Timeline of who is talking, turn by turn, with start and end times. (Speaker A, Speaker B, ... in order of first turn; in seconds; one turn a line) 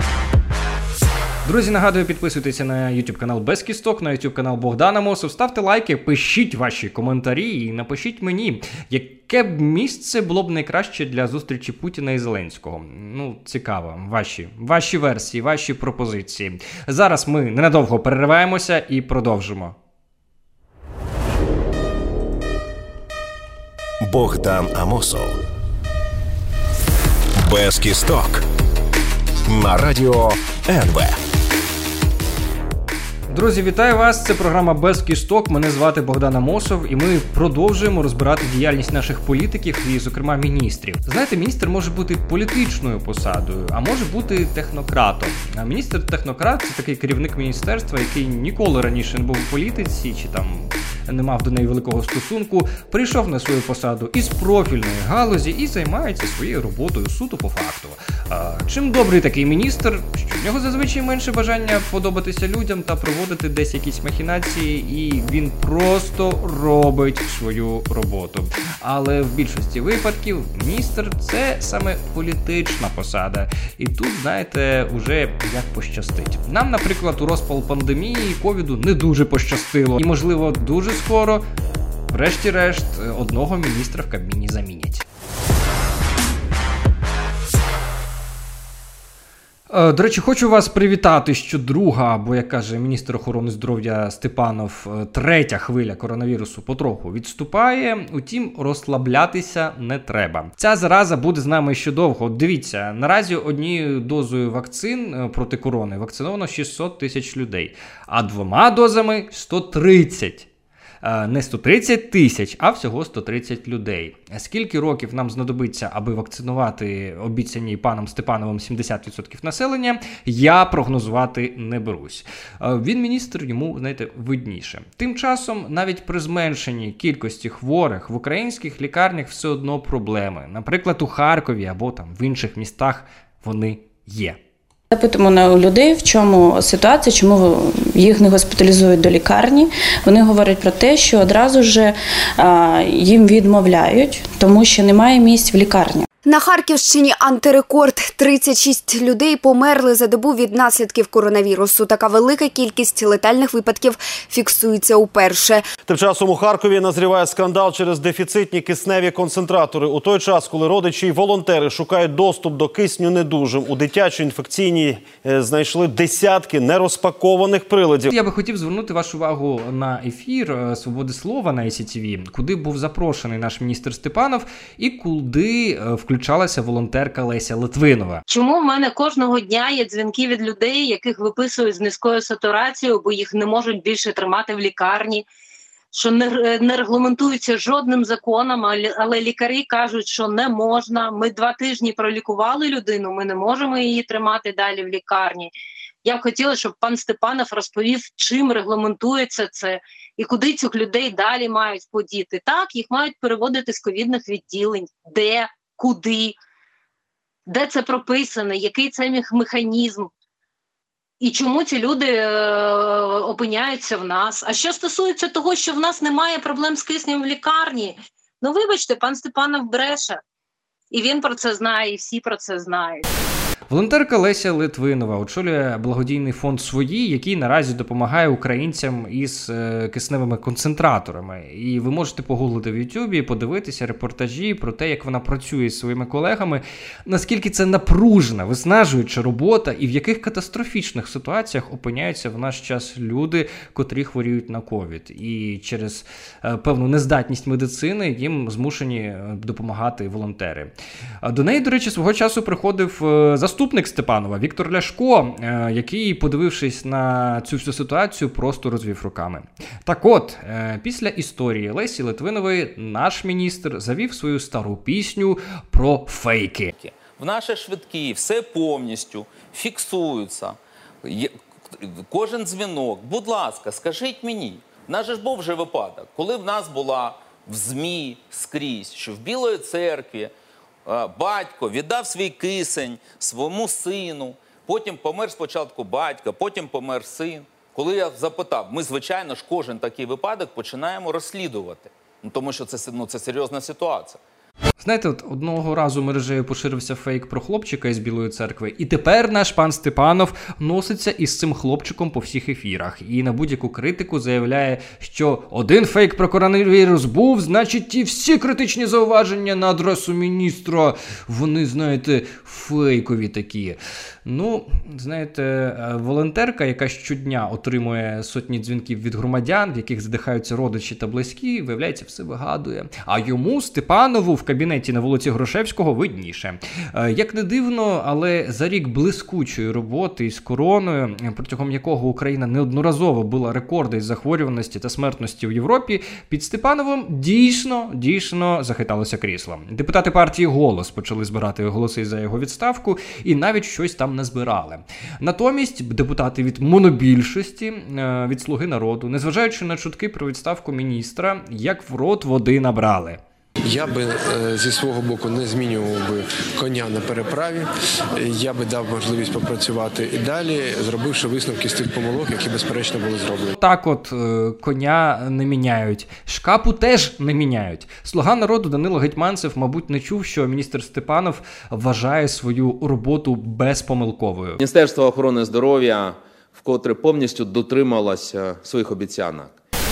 Speaker A: 1.4-19.8
Speaker B: 24.0-25.4
Speaker B: 27.4-28.4
Speaker B: 29.4-31.2
Speaker A: 33.3-81.4
Speaker A: 82.1-85.0
Speaker A: 89.7-110.5
Speaker A: 111.0-134.4
Speaker C: 134.9-146.1
Speaker D: 146.2-155.7
Speaker E: 155.8-168.1
Speaker A: 168.1-178.2
Speaker F: 178.3-185.3
Speaker F: 185.9-195.5
Speaker F: 196.0-206.3
Speaker F: 207.5-210.1
Speaker F: 211.2-220.2
Speaker F: 220.9-223.0
Speaker A: 223.7-266.7
Speaker G: 266.8-280.3
Speaker G: 280.9-294.2
Speaker A: 294.8-353.2
Speaker H: 353.6-363.5
Speaker A: 363.6-374.6
Speaker I: 374.6-379.5